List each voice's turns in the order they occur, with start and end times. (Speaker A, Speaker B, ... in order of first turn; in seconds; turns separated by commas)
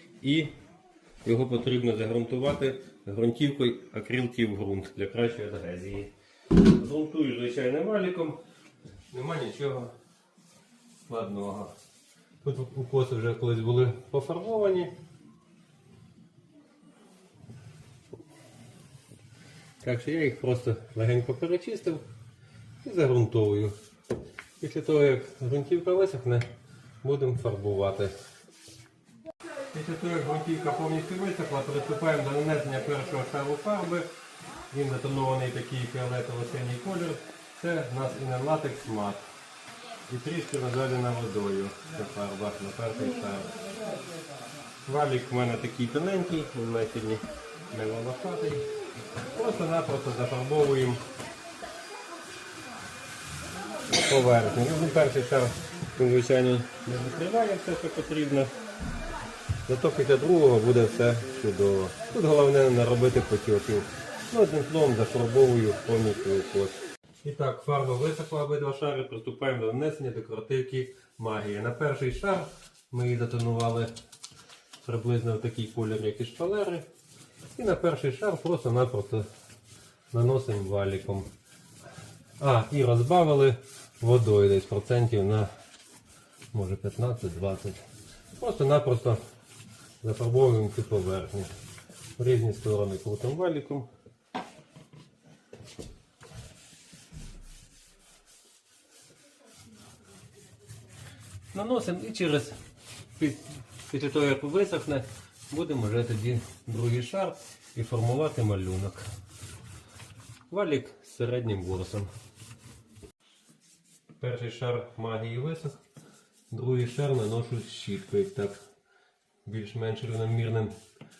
Speaker A: 0.2-0.5, Speaker A: 1.2-8.4, Speaker A: 9.1-9.9, Speaker A: 11.1-11.7, Speaker A: 12.4-14.9, Speaker A: 19.8-22.1, Speaker A: 22.8-23.8, Speaker A: 24.6-26.5, Speaker A: 27.0-28.1, Speaker A: 29.7-34.1, Speaker A: 34.7-39.2, Speaker A: 40.1-43.6, Speaker A: 44.9-51.1, Speaker A: 53.9-58.5, Speaker A: 59.7-73.9, Speaker A: 74.8-76.9, Speaker A: 77.5-79.3, Speaker A: 80.1-81.3, Speaker A: 82.4-85.5, Speaker A: 86.5-87.8, Speaker A: 88.4-89.2, Speaker A: 90.0-91.5, Speaker A: 92.2-93.9, Speaker A: 101.5-102.6, Speaker A: 103.1-109.1, Speaker A: 110.5-112.1, Speaker A: 114.2-115.8, Speaker A: 116.5-118.6, Speaker A: 119.5-120.8